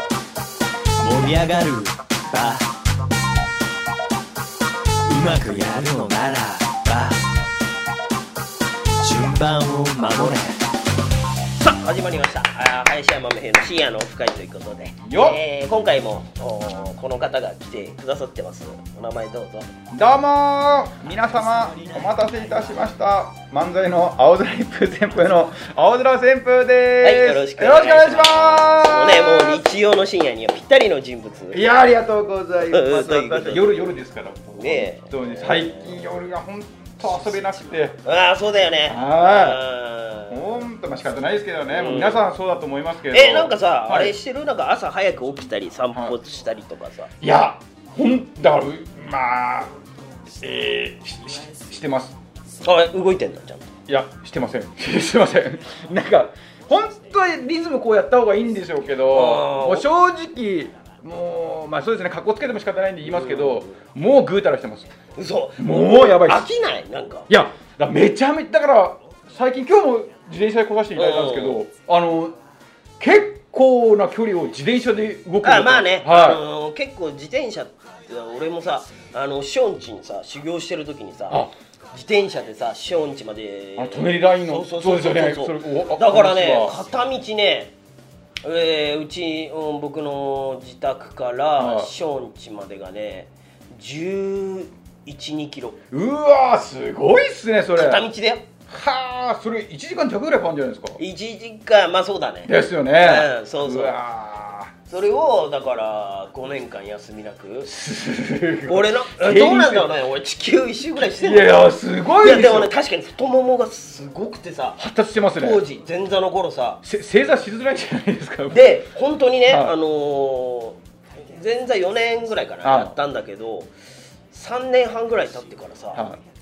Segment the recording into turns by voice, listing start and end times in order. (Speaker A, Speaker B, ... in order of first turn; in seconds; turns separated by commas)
Speaker A: 1.0-2.7, Speaker A: 5.0-7.2, Speaker A: 9.0-10.6, Speaker B: 10.0-10.4, Speaker B: 11.6-19.7, Speaker C: 15.0-15.4, Speaker C: 19.9-29.7, Speaker A: 21.5-22.1, Speaker B: 27.0-31.6, Speaker C: 31.5-38.0, Speaker B: 32.7-33.8, Speaker B: 34.6-36.0, Speaker B: 38.0-40.5, Speaker C: 38.9-39.6, Speaker C: 40.3-44.2, Speaker B: 41.7-42.2, Speaker B: 43.1-47.1, Speaker C: 45.9-46.2, Speaker C: 47.2-49.8, Speaker C: 50.4-52.2, Speaker B: 52.6-53.8, Speaker C: 53.9-64.9, Speaker B: 59.1-59.9, Speaker B: 63.0-63.8, Speaker B: 65.2-67.3, Speaker C: 65.6-66.5, Speaker C: 67.3-72.4, Speaker B: 71.0-71.7, Speaker C: 73.0-76.4, Speaker B: 75.4-87.8, Speaker C: 81.3-81.5, Speaker C: 83.8-86.8, Speaker B: 88.4-95.8, Speaker C: 91.6-91.9, Speaker C: 95.9-98.1, Speaker B: 97.8-98.5, Speaker C: 98.7-101.0, Speaker B: 101.0-104.0, Speaker C: 102.5-104.7, Speaker B: 104.9-107.7, Speaker C: 107.6-109.9, Speaker B: 108.7-111.7, Speaker C: 111.0-112.7, Speaker B: 112.2-116.8, Speaker C: 114.8-115.7, Speaker C: 116.8-118.8, Speaker B: 118.5-123.7, Speaker C: 119.5-119.8, Speaker C: 122.6-123.0, Speaker B: 124.3-126.0, Speaker C: 125.9-126.2